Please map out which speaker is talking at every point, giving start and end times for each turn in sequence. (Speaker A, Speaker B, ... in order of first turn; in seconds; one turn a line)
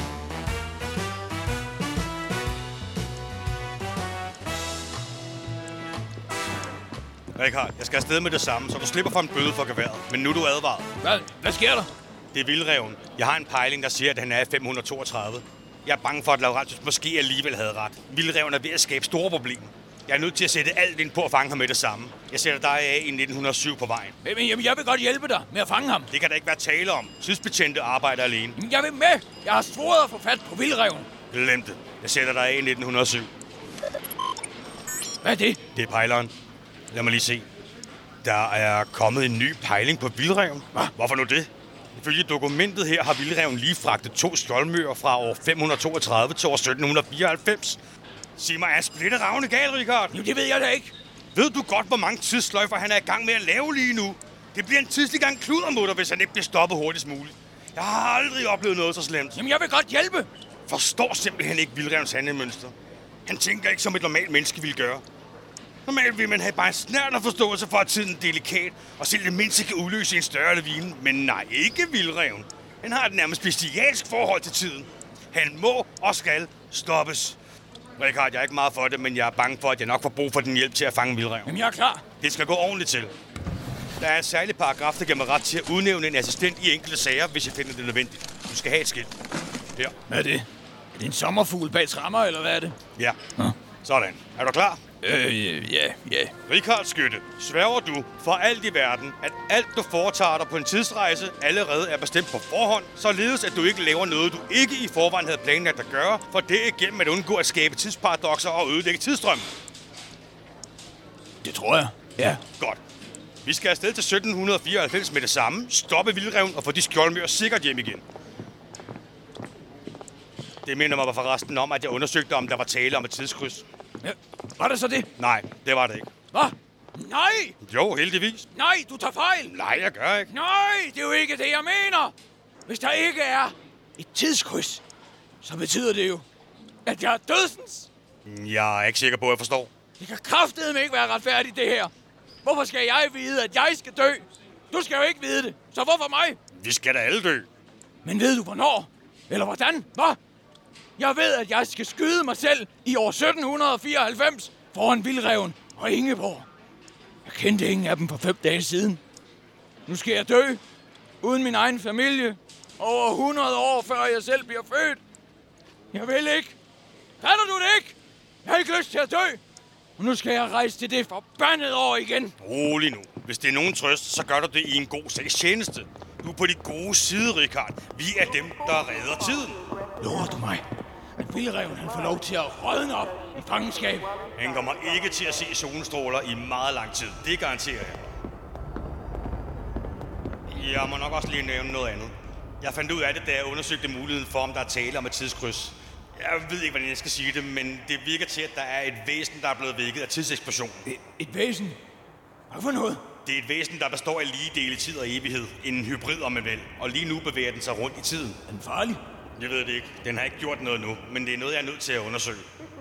Speaker A: 7.3-10.9
Speaker B: 11.0-11.9
Speaker A: 12.3-24.1
Speaker B: 24.2-26.1
Speaker A: 26.1-28.6
Speaker B: 28.6-31.1
Speaker A: 31.3-33.3
Speaker B: 35.2-35.6
Speaker A: 35.7-36.3
Speaker A: 36.9-37.5
Speaker A: 38.2-47.8
Speaker A: 48.4-50.2
Speaker B: 50.1-50.9
Speaker A: 51.3-59.4
Speaker B: 59.3-60.3
Speaker A: 60.7-62.7
Speaker A: 63.2-65.0
Speaker A: 65.9-77.4
Speaker A: 78.0-81.5
Speaker B: 81.5-82.0
Speaker A: 82.2-83.1
Speaker A: 84.0-89.1
Speaker B: 90.1-90.5
Speaker B: 91.0-92.8
Speaker A: 93.8-94.8
Speaker B: 95.0-96.3
Speaker A: 96.5-109.5
Speaker B: 111.4-112.4
Speaker A: 113.4-118.0
Speaker A: 120.6-123.6
Speaker B: 124.0-125.1
Speaker A: 125.2-126.1
Speaker B: 126.3-127.5
Speaker A: 127.6-128.5
Speaker B: 128.5-129.5
Speaker A: 129.4-130.3
Speaker B: 130.3-132.1
Speaker B: 132.7-134.8
Speaker B: 135.4-136.2
Speaker B: 136.8-137.9
Speaker A: 138.2-139.7
Speaker B: 140.0-141.9
Speaker B: 142.4-146.4
Speaker A: 146.5-147.5
Speaker B: 148.0-150.2
Speaker B: 151.0-156.5
Speaker B: 157.2-159.0
Speaker B: 159.9-160.6
Speaker B: 161.2-165.0
Speaker B: 165.9-166.5
Speaker B: 167.2-169.4
Speaker B: 170.0-172.3
Speaker A: 172.4-179.6
Speaker B: 180.0-180.6
Speaker B: 181.2-184.1
Speaker A: 184.4-188.0
Speaker A: 190.5-200.8
Speaker B: 200.8-201.8
Speaker B: 202.5-203.0
Speaker A: 203.2-208.4
Speaker B: 208.5-209.0
Speaker A: 209.4-212.5